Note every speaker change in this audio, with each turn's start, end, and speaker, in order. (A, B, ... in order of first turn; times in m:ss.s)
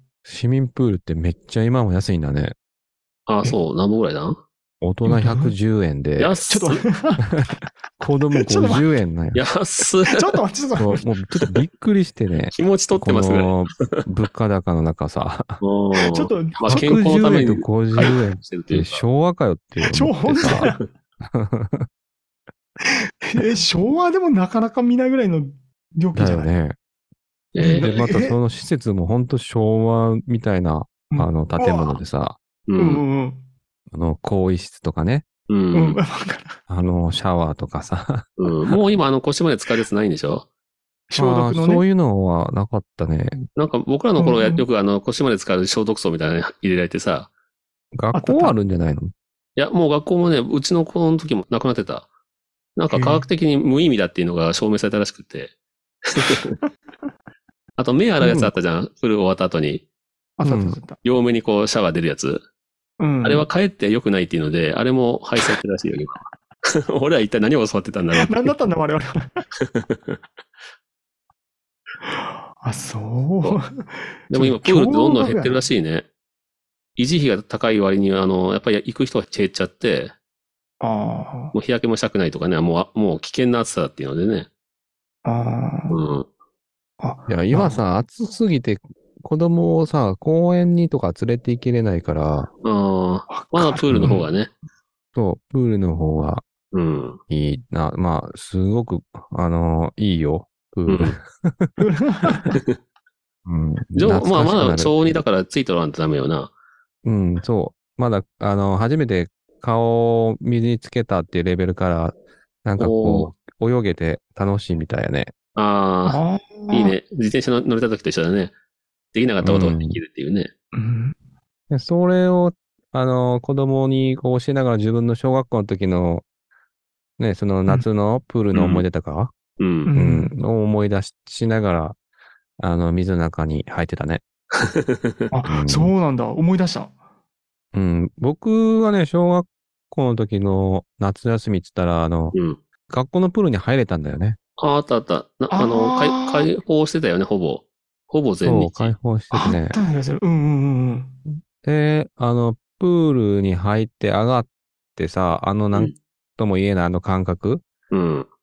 0:00.3-0:02.6 A
0:03.3-0:04.4 B
0:04.8-0:06.4 A
0:05.1-0:05.6 C
0:06.2-0:06.8 B
0:06.5-0:07.5 C
0:08.0-0:09.4 A
0:08.3-0:08.8 C
0:09.4-0:10.4 B
0:10.1-0:11.0 C
0:10.8-0:15.6 A
0:12.5-0:14.0 B
0:15.6-0:19.0 B
0:16.0-0:17.1 C
0:16.7-0:21.9 A
0:19.8-0:20.8 C
0:20.4-0:20.8 B
0:22.9-0:26.5 C
0:26.1-0:26.8 A
0:27.6-0:28.0 B
0:27.6-0:28.4 C
0:27.6-0:32.4 A
0:31.1-0:32.0 C
0:32.7-0:33.0 B
0:32.8-0:33.4 C
0:33.9-0:35.3 A
0:35.5-0:36.0 B
0:35.7-0:36.6 C
0:36.7-0:38.3 A
0:38.4-0:40.5 B
0:41.1-0:41.8 C
0:41.2-0:43.4 A
0:43.6-0:47.3 B
0:44.2-0:44.6 C
0:47.9-0:49.1 A
0:48.1-0:48.6 C
0:49.6-0:52.1 B
0:52.8-0:55.5 B
0:52.9-0:53.2 C
0:56.1-0:56.6 B
0:57.8-0:59.8 B
0:58.2-0:58.5 C
1:00.4-1:01.0 C
1:00.4-1:00.8 A
1:01.0-1:02.4 B
1:03.0-1:03.5 C
1:03.2-1:08.5 B
1:08.2-1:09.4 C
1:09.6-1:10.2 B
1:12.0-1:15.6 C
1:14.3-1:16.1 B
1:17.0-1:20.1 B
1:20.8-1:21.5 C
1:21.5-1:24.5 B
1:25.2-1:26.0 C
1:25.9-1:26.3 B
1:27.0-1:27.8 C
1:27.3-1:32.5 A
1:32.6-1:34.5 B
1:33.3-1:34.2 C
1:35.2-1:36.5 A
1:36.7-1:37.2 B
1:37.3-1:41.7 A
1:40.9-1:41.2 B
1:41.8-1:42.6 C
1:43.5-1:45.2 A
1:44.0-1:46.5 B
1:47.0-1:55.3 A
1:52.8-1:53.3 B
1:55.6-1:58.5 B
1:56.1-1:57.0 C
1:59.1-2:00.5 B
1:59.4-2:00.0 A
2:00.7-2:01.2 C
2:01.7-2:06.2 A
2:07.2-2:09.4 A
2:08.5-2:08.8 B
2:09.6-2:09.9 B
2:09.9-2:10.3 C
2:09.9-2:12.0 A
2:12.6-2:14.2 A
2:14.6-2:15.2 B
2:15.3-2:16.9 C
2:15.5-2:15.9 A
2:17.7-2:22.4 A
2:22.3-2:22.6 B
2:22.9-2:24.4 A
2:24.6-2:28.9 B
2:25.5-2:26.5 C
2:28.4-2:29.8 A
2:29.3-2:31.2 C
2:31.5-2:37.6 A
2:37.9-2:38.3 B